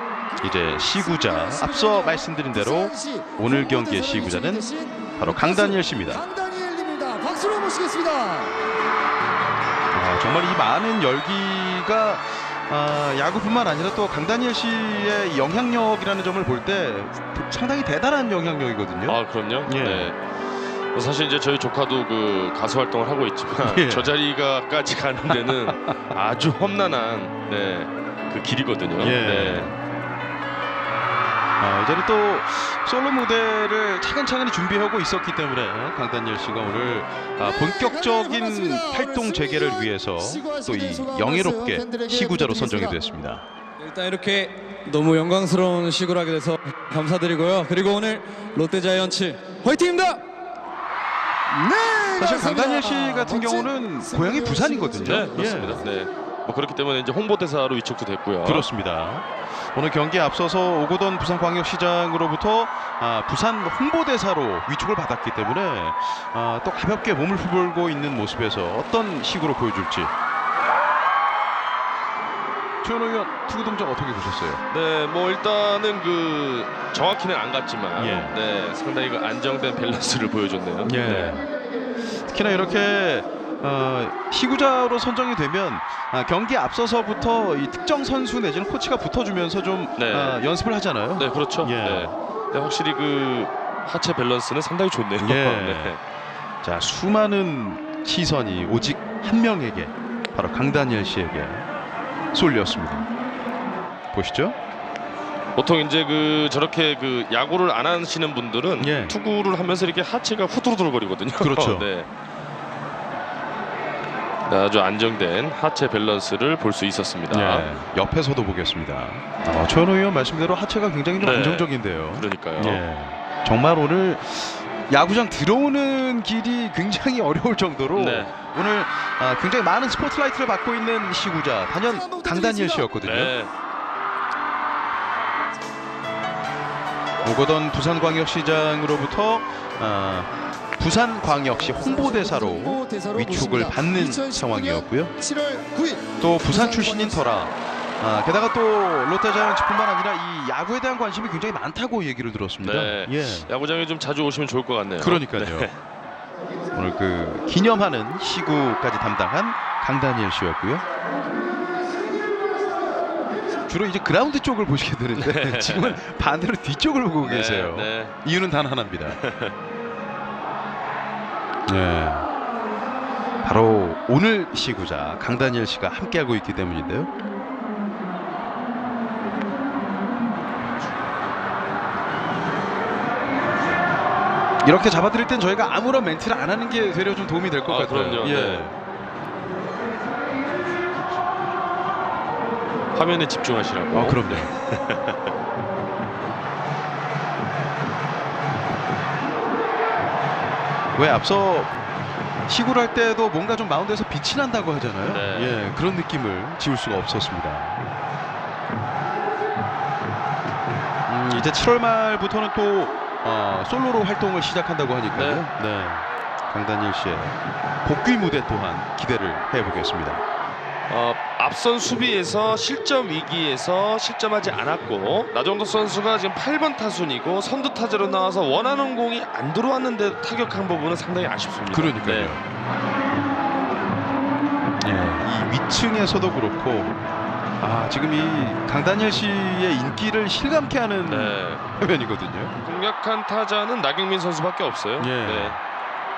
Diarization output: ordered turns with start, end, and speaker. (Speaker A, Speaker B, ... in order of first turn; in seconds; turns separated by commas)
Speaker A: 0.4-6.2, Speaker B: 0.9-8.6, Speaker A: 9.9-20.1, Speaker C: 19.1-20.2, Speaker C: 20.9-29.7, Speaker A: 23.6-24.1, Speaker A: 25.3-25.9, Speaker A: 29.0-29.7, Speaker A: 31.6-43.4, Speaker B: 37.4-43.0, Speaker D: 43.8-50.2, Speaker B: 51.5-55.3, Speaker A: 52.1-55.8, Speaker C: 55.0-58.7, Speaker A: 58.4-70.1, Speaker A: 72.8-74.6, Speaker C: 74.7-81.4, Speaker A: 78.0-78.4, Speaker A: 80.8-81.5, Speaker A: 82.2-92.1, Speaker C: 90.0-90.4, Speaker C: 91.2-96.0, Speaker A: 95.2-96.0, Speaker A: 96.6-101.7, Speaker A: 102.3-103.1, Speaker A: 104.1-104.5, Speaker C: 105.5-112.1, Speaker A: 108.8-109.2, Speaker A: 111.4-111.9, Speaker C: 114.5-117.7, Speaker A: 117.3-133.3, Speaker C: 121.2-122.8, Speaker C: 127.9-128.3, Speaker B: 131.8-132.9, Speaker C: 133.0-133.5, Speaker A: 137.2-145.1, Speaker B: 141.2-147.3, Speaker A: 146.2-153.5, Speaker C: 152.6-155.8, Speaker A: 155.0-155.7, Speaker A: 156.7-160.8, Speaker A: 163.7-169.2, Speaker C: 165.2-166.0, Speaker C: 167.2-168.2, Speaker C: 169.1-169.6, Speaker A: 171.7-172.3, Speaker A: 173.4-177.1, Speaker A: 184.6-188.8, Speaker C: 187.7-188.7, Speaker C: 192.9-195.3, Speaker A: 193.9-194.5, Speaker A: 200.9-201.7, Speaker A: 202.5-207.8, Speaker C: 205.0-205.6, Speaker A: 211.1-220.2, Speaker C: 215.1-215.5, Speaker C: 220.9-232.4, Speaker A: 231.7-232.4, Speaker A: 234.8-236.9, Speaker A: 237.6-242.5, Speaker C: 241.1-241.7, Speaker C: 242.6-245.6, Speaker A: 245.0-245.6